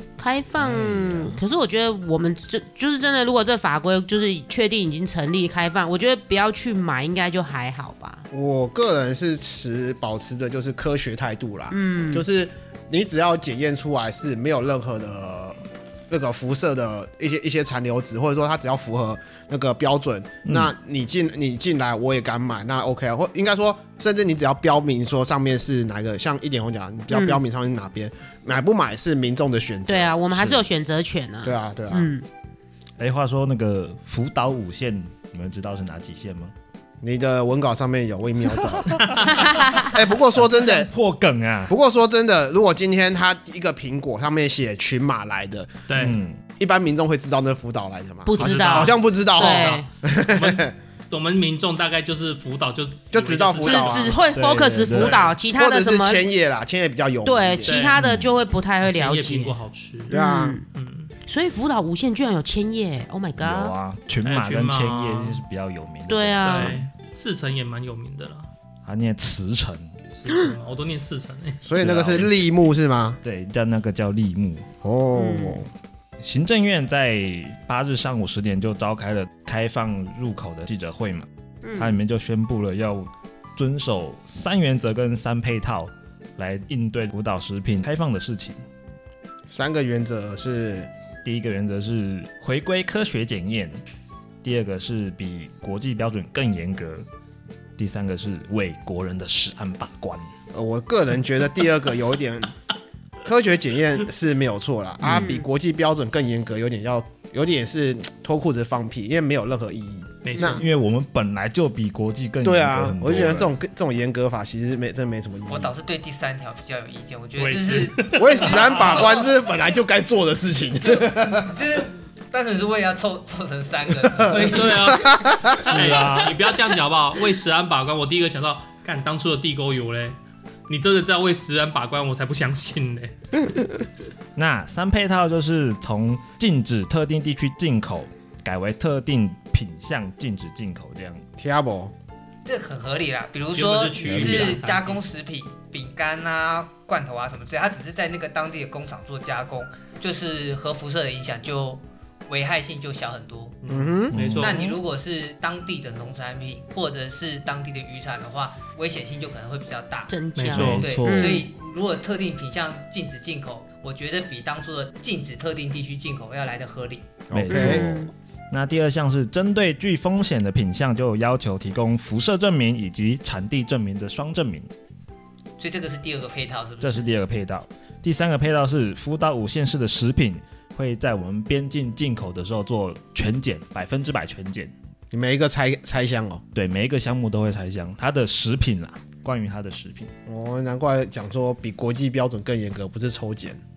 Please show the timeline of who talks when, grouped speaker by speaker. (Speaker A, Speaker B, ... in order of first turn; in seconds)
Speaker A: 0.2-8.2, 11.7-12.2, 27.1-27.4, 29.9-32.2, 39.3-40.0, 48.2-49.9, 53.6-56.3, 57.2-59.5, 60.1-60.6, 61.2-63.7, 66.1-66.8, 75.1-75.6, 81.6-82.0, 105.1-105.4, 160.1-161.5, 167.5-168.1
Speaker B: 0.6-1.4, 20.5-20.7, 33.0-36.5, 38.7-39.4, 40.5-41.7, 46.0-46.4, 54.3-55.3, 58.0-58.3, 63.4-66.8, 68.8-69.9, 71.8-72.3, 73.2-74.7, 76.2-88.6, 91.2-93.8, 94.4-97.0, 97.8-100.3, 110.4-113.5, 125.6-126.4, 134.3-141.2, 144.1-144.5, 154.1-154.6, 160.5-161.4, 167.3-174.7, 176.8-184.7, 186.5-190.1
Speaker C: 8.3-30.6, 31.4-32.1, 37.0-39.1, 39.7-40.9, 41.7-45.8, 46.6-50.7, 53.1-54.2, 55.5-57.7, 60.1-60.6, 71.6-73.2, 74.8-75.7, 89.5-90.9, 100.5-102.5, 103.2-110.6, 112.4-115.7, 118.2-121.5, 124.2-125.6, 141.4-141.9, 153.7-154.2, 167.3-167.9, 185.1-186.4, 190.2-193.6
Speaker D: 45.9-46.2, 48.4-54.2, 54.9-55.3, 57.6-58.0, 58.8-60.1, 60.7-61.1, 64.2-65.4, 66.4-68.5, 70.1-71.6, 110.2-110.6, 117.4-119.0, 124.4-130.2, 130.7-133.1, 143.5-145.0, 153.6-154.8, 160.3-160.9
Speaker E: 115.5-119.4, 120.9-125.0, 142.4-153.6, 154.4-160.2, 160.8-167.2, 175.6-177.1